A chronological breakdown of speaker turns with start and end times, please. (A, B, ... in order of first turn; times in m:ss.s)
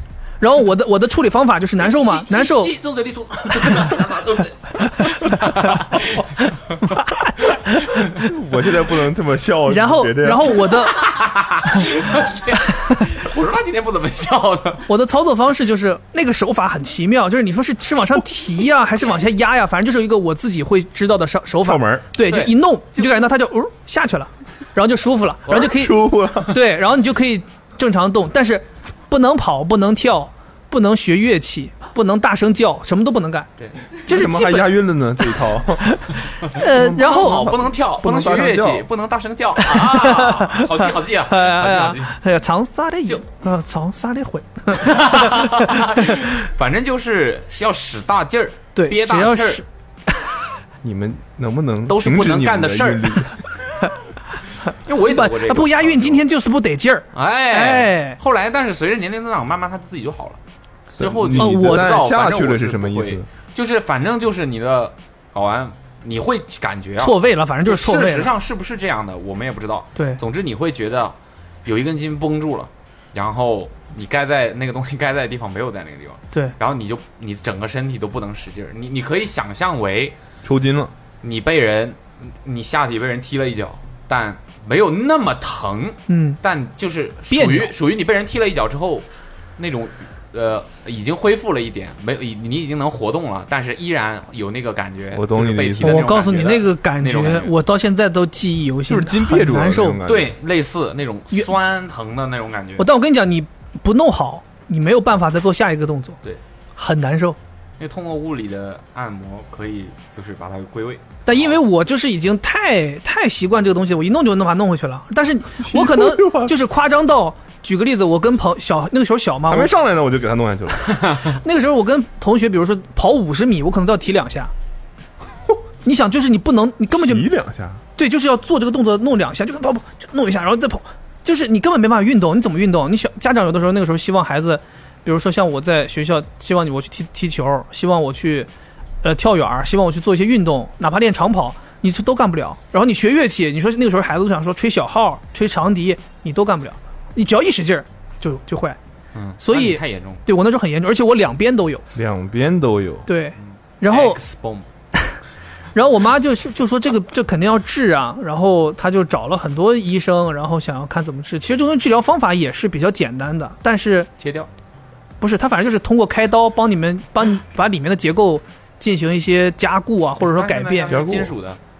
0:00.4-0:02.7 A
0:01.8-0:06.8 B
0:05.3-0:05.7 A
0:06.8-0:08.2 A
0:08.1-0:10.6 C
0:09.7-0:11.0 A
0:10.7-0:14.8 B
0:14.9-0:33.5 A
0:21.6-0:22.0 C
0:22.2-0:23.1 B
0:25.5-0:26.6 C
0:33.6-0:33.8 B
0:34.0-0:34.7 A
0:34.0-0:36.0 C
0:35.8-0:37.6 A
0:36.6-0:42.2 B
0:36.6-0:38.8 C
0:39.6-0:46.2 A
0:44.8-0:49.6 B
0:48.7-0:50.3 A
0:50.8-0:53.4 C
0:51.9-0:53.3 B
0:54.8-0:56.2 B
0:55.0-0:58.2 A
0:57.1-1:20.2 B
1:01.0-1:03.2 C
1:01.4-1:01.9 A
1:07.0-1:08.3 A
1:10.0-1:10.2 A
1:20.4-1:20.9 C
1:21.2-1:29.0 B
1:26.1-1:26.4 A
1:27.3-1:27.7 A
1:29.6-1:37.5 B
1:35.1-1:36.1 C
1:35.8-1:40.0 A
1:38.9-1:40.4 C
1:40.0-1:42.9 B
1:42.8-1:46.2 A
1:46.8-1:47.4 A
1:47.8-1:51.6 B
1:51.2-1:59.7 A
1:55.6-1:56.5 C
1:59.5-2:01.2 C
2:01.3-2:04.5 A
2:05.8-2:07.3 A
2:06.9-2:07.8 C
2:08.0-2:18.5 A
2:19.0-2:28.8 A
2:29.1-2:30.2 B
2:29.4-2:31.8 A
2:31.9-2:33.1 C
2:33.0-2:34.2 A
2:33.4-2:34.7 B
2:35.7-2:44.1 A
2:44.2-2:44.5 B
2:45.2-2:51.0 A
2:50.2-2:51.6 B
2:50.9-2:51.3 C